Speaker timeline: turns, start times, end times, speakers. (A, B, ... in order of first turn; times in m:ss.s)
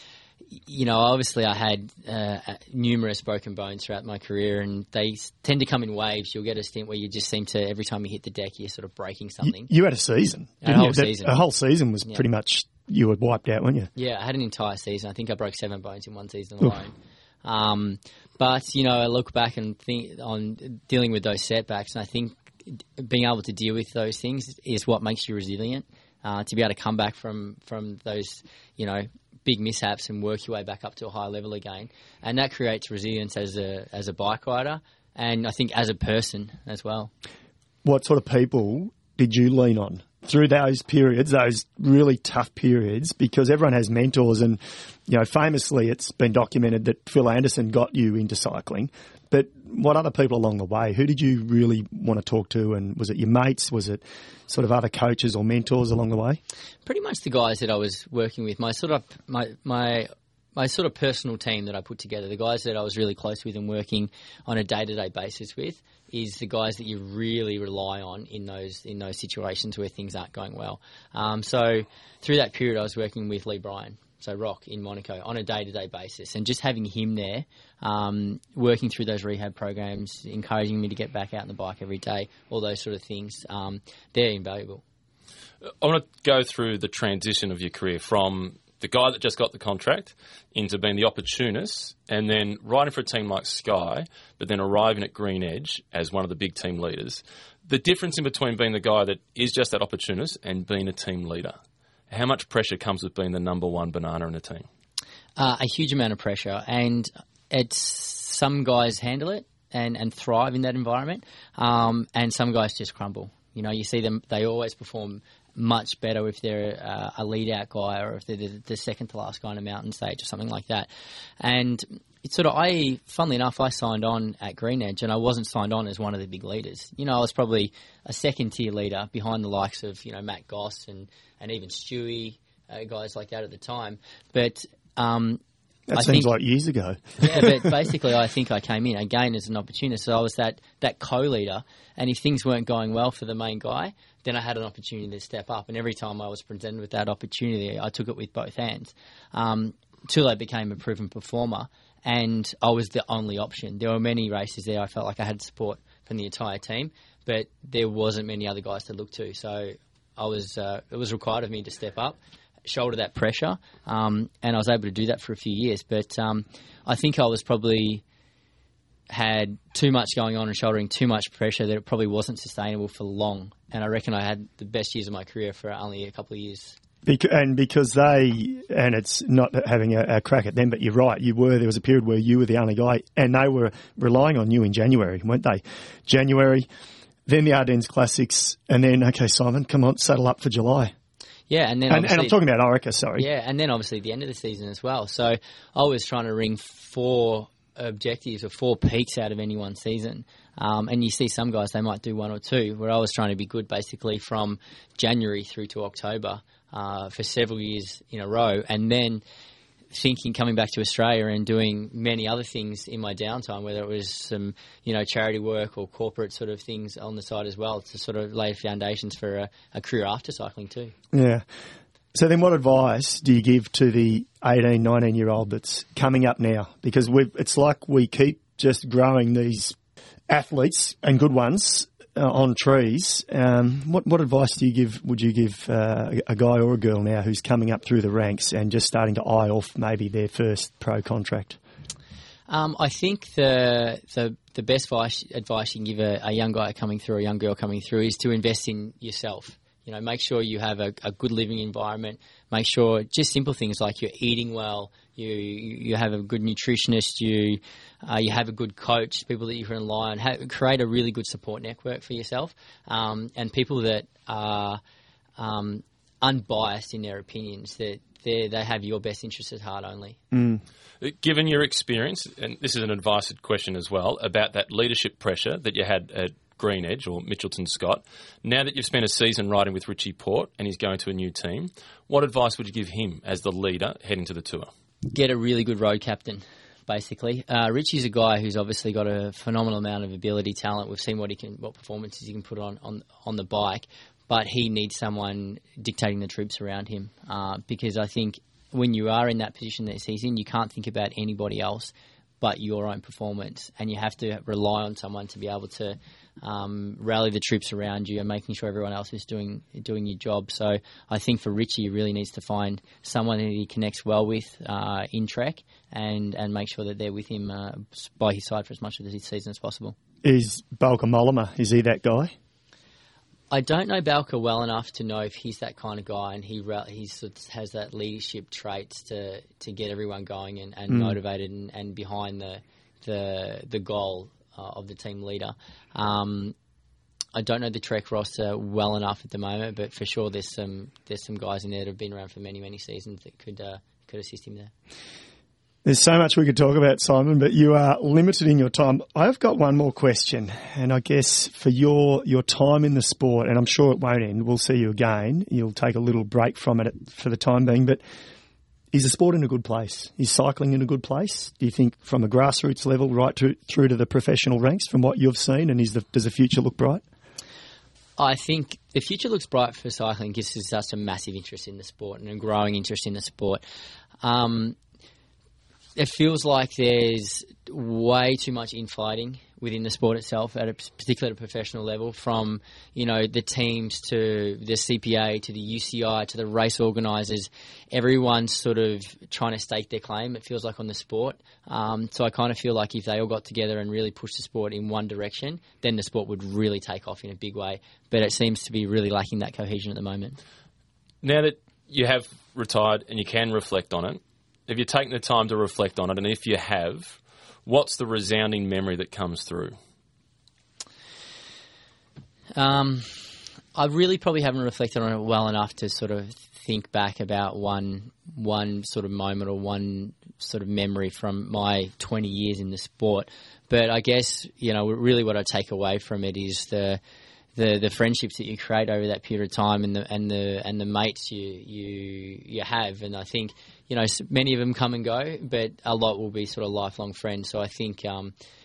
0:00.6-0:09.7 A
0:09.4-0:13.9 B
0:10.6-0:11.4 A
0:13.9-0:37.1 A
0:37.8-0:56.4 B
0:56.8-1:24.8 A
1:25.8-1:41.6 C
1:42.1-1:44.7 C
1:45.4-2:00.9 A
2:01.4-2:15.4 A
2:15.9-2:17.8 B
2:15.9-2:16.3 A
2:17.2-2:48.0 A
2:49.1-2:56.8 A
2:57.0-3:06.7 B
3:07.3-3:10.9 B
3:11.5-3:12.4 A
3:11.9-3:13.3 B
3:13.2-3:29.2 A
3:29.9-3:40.9 A
3:41.1-3:41.4 B
3:42.1-3:49.8 B
3:50.3-4:01.6 B
4:02.5-4:24.8 A
4:25.4-4:30.2 A
4:30.3-4:30.6 B
4:31.0-4:44.7 C
4:45.0-5:20.0 A
5:20.2-5:22.3 B
5:23.5-5:36.5 A
5:30.9-5:31.2 B
5:37.3-5:44.7 A
5:45.8-5:58.0 B
5:58.9-6:07.0 B
6:08.2-6:13.6 A
6:14.2-6:14.8 A
6:16.0-6:40.4 A
6:41.2-6:49.7 C
6:52.6-7:07.0 A
7:07.5-7:18.3 A